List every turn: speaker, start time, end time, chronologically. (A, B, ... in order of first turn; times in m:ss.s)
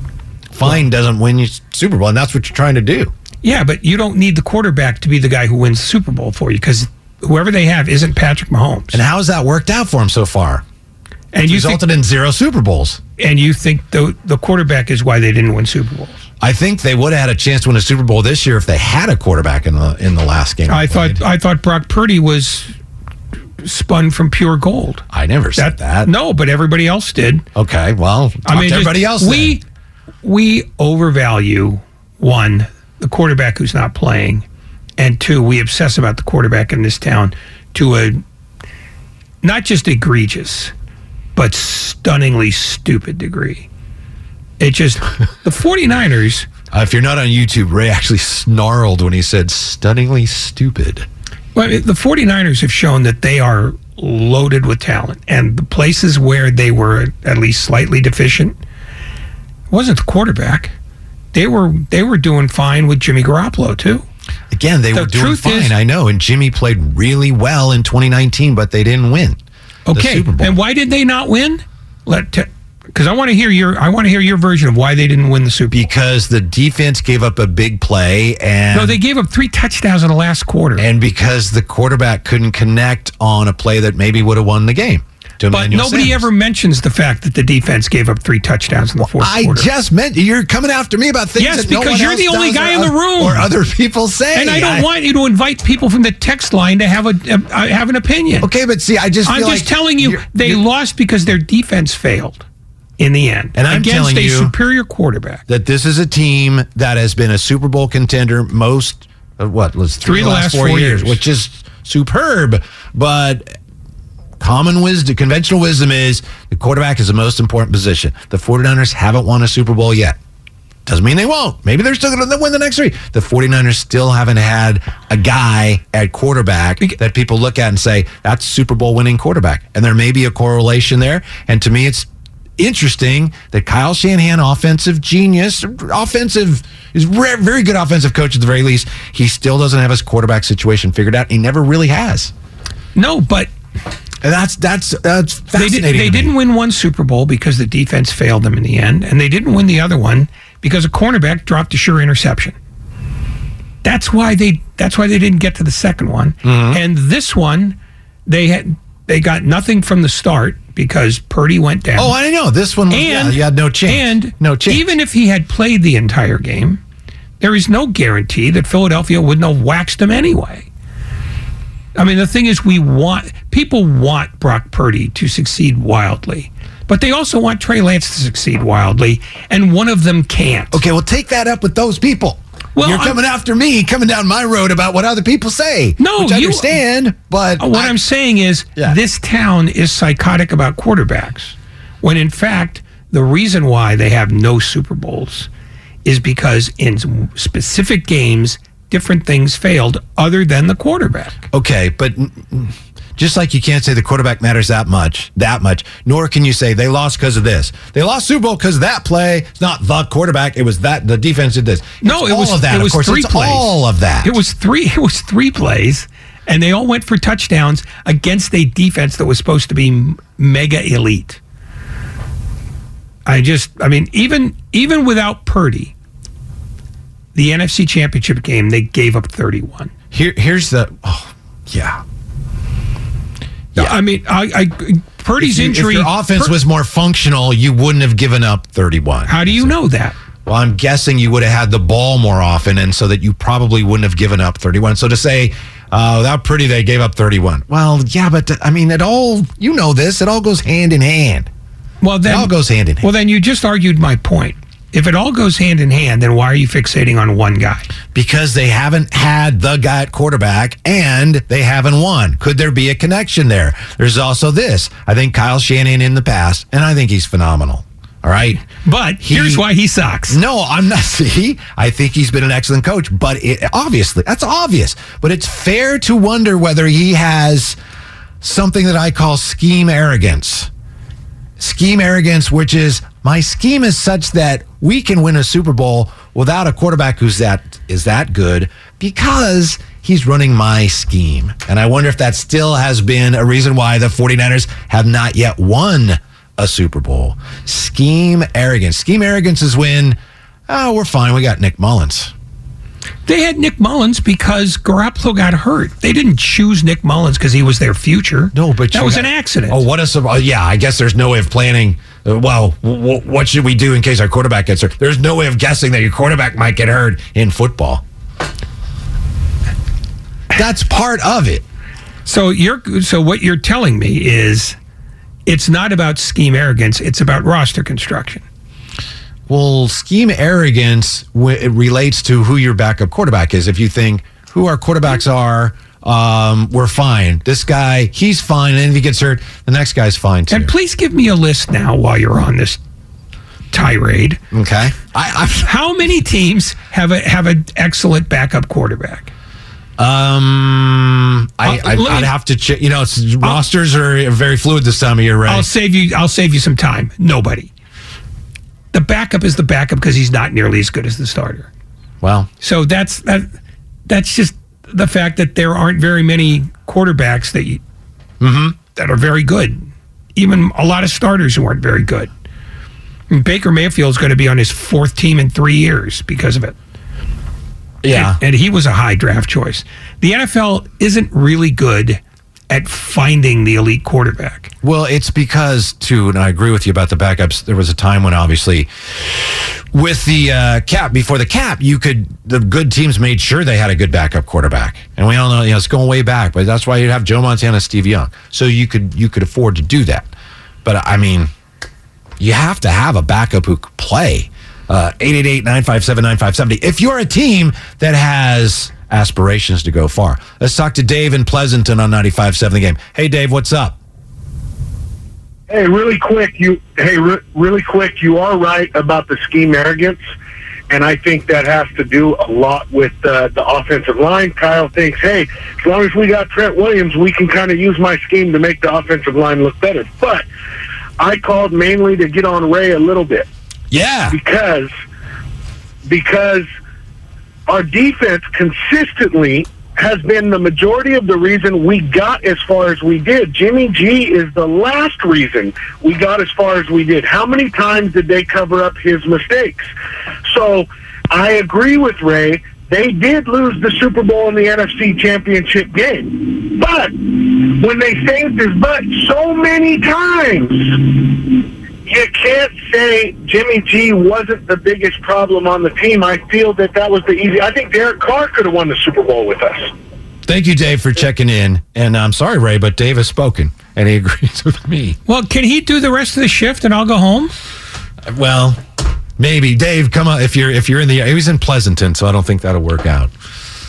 0:00.5-0:03.1 A
0:03.4-0:09.0 B
0:08.9-0:10.6 A
0:11.3-0:11.9 B
0:11.4-0:13.0 A
0:13.2-0:16.2 B
0:16.4-0:21.2 A
0:20.7-0:22.8 B
0:23.6-0:25.0 B
0:25.1-0:26.1 A
0:25.6-0:27.5 B
0:27.6-0:29.6 A
0:28.4-0:29.6 B
0:30.2-0:34.4 B
0:35.0-0:38.2 B
0:39.4-0:40.7 B
0:41.4-0:43.7 B
0:44.6-0:46.5 B
0:46.7-0:51.1 A
0:51.6-0:58.6 B
0:59.7-1:00.7 B
1:01.3-1:04.1 B
1:04.5-1:09.4 A
1:04.9-1:05.8 B
1:09.9-1:15.9 B
1:09.9-1:10.6 A
1:15.7-1:19.0 A
1:18.7-1:20.8 B
1:20.8-1:26.3 A
1:25.5-1:29.7 B
1:29.0-1:34.9 A
1:31.4-1:33.5 B
1:34.3-1:38.5 B
1:38.4-1:40.6 A
1:39.2-1:42.4 B
1:43.0-1:45.4 B
1:43.5-1:44.5 A
1:45.5-1:53.6 A
1:50.0-1:51.2 B
1:54.4-2:00.2 A
2:00.9-2:22.3 A
2:23.0-2:23.5 B
2:24.2-2:26.3 A
2:25.6-2:32.6 B
2:33.8-2:42.2 B
2:36.4-2:36.8 A
2:42.0-2:44.9 A
2:42.9-2:46.8 B
2:47.4-2:50.7 B
2:52.0-3:00.8 B
3:00.7-3:08.0 A
3:02.8-3:03.2 B
3:06.0-3:06.8 B
3:07.6-3:15.5 B
3:16.0-3:21.4 B
3:21.5-3:34.4 A
3:32.0-3:33.7 B
3:34.2-3:41.4 B
3:43.3-3:45.9 B
3:47.4-3:49.9 B
3:50.1-3:52.0 A
3:53.8-3:56.6 B
3:55.4-3:59.8 A
3:59.3-4:00.2 B
4:00.4-4:11.5 A
4:12.0-4:17.9 B
4:12.2-4:13.1 A
4:18.1-4:28.7 A
4:28.7-4:30.4 B
4:29.2-4:29.6 A
4:30.3-4:37.8 A
4:38.4-4:40.7 A
4:41.6-5:02.3 A
5:03.3-5:09.8 B
5:08.5-5:18.0 A
5:20.5-5:21.6 A
5:22.3-5:24.8 B
5:25.5-5:28.4 B
5:29.5-5:40.7 A
5:40.5-5:42.8 B
5:43.7-5:44.4 B
5:44.5-5:45.7 A
5:45.6-5:49.3 B
5:50.0-5:55.7 A
5:51.6-5:52.3 B
5:55.5-5:57.7 B
5:58.9-6:01.7 B
6:02.2-6:02.5 A
6:02.6-6:03.5 B
6:04.1-6:07.8 B
6:08.4-6:08.8 A
6:09.0-6:12.3 B
6:13.3-6:16.8 B
6:18.0-6:18.4 A
6:18.1-6:24.7 B
6:24.8-6:40.3 A
6:40.8-6:41.5 A
6:42.4-6:54.0 A
6:55.7-7:00.2 C
7:00.9-7:10.4 C
7:11.2-7:13.5 C
7:13.9-7:14.4 A
7:14.3-7:14.9 C
7:16.1-7:16.7 C
7:17.7-7:29.9 C
7:30.5-7:49.9 C
7:50.4-7:55.2 A
7:55.3-7:57.5 B
7:58.3-7:58.8 A
7:59.4-8:03.3 A